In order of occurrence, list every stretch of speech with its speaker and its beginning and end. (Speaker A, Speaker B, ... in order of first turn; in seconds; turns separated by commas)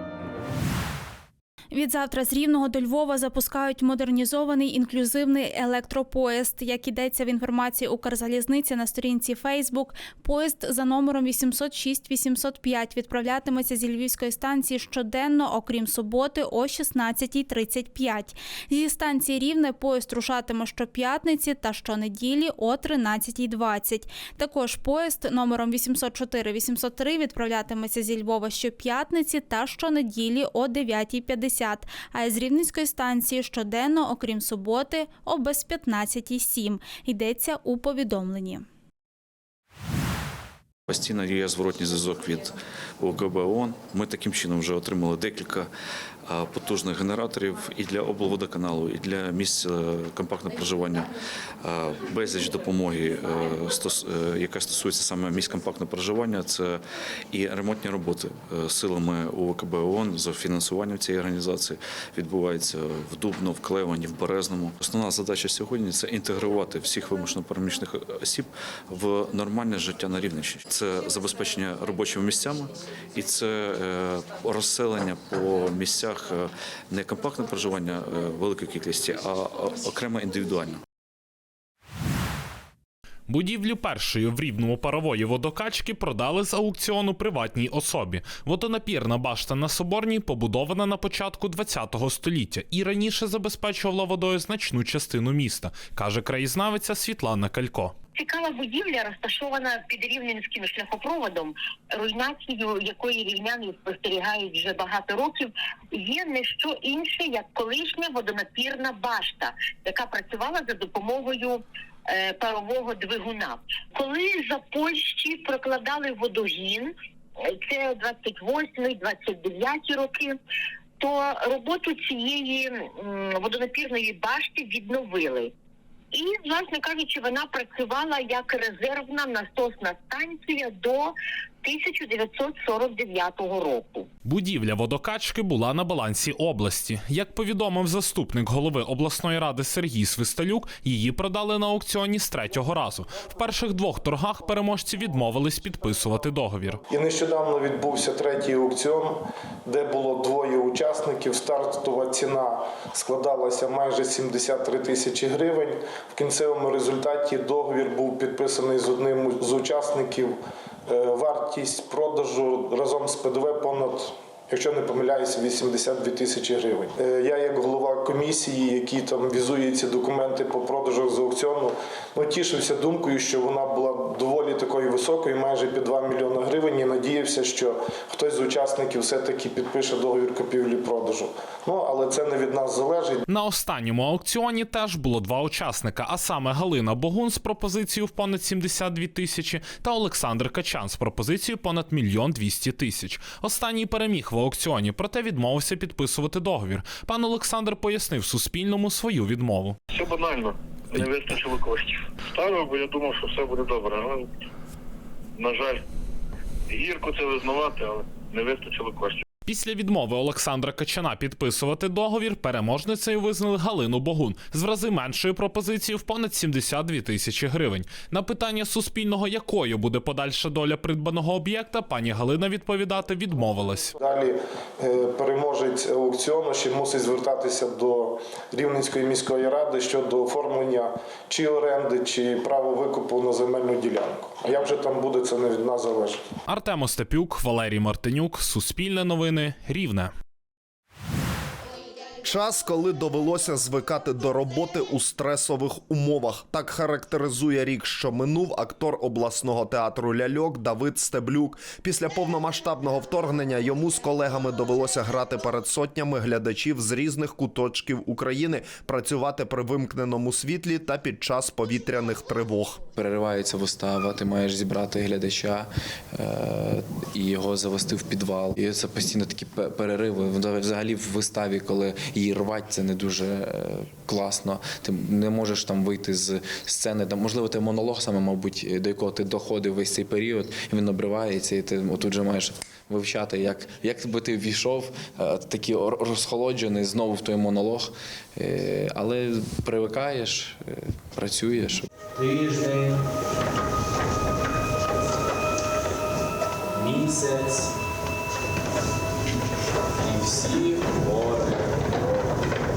Speaker A: 1.7-38.6, Speaker B: 40.9-45.7, Speaker B: 46.3-51.1, Speaker B: 51.6-56.8, Speaker B: 57.3-80.8, Speaker C: 83.3-97.9, Speaker D: 98.1-116.9, Speaker D: 117.5-120.4, Speaker D: 121.0-125.5, Speaker D: 126.1-134.1, Speaker C: 134.2-146.8, Speaker E: 146.9-160.3, Speaker E: 160.9-183.2, Speaker C: 183.3-199.8, Speaker F: 199.9-204.3, Speaker F: 205.4-205.8, Speaker F: 206.7-209.2, Speaker C: 209.4-223.9, Speaker E: 224.0-236.2, Speaker C: 236.5-240.1, Speaker G: 242.2-262.8, Speaker H: 262.9-291.9, Speaker H: 292.4-292.7, Speaker H: 296.9-297.4, Speaker H: 300.2-301.3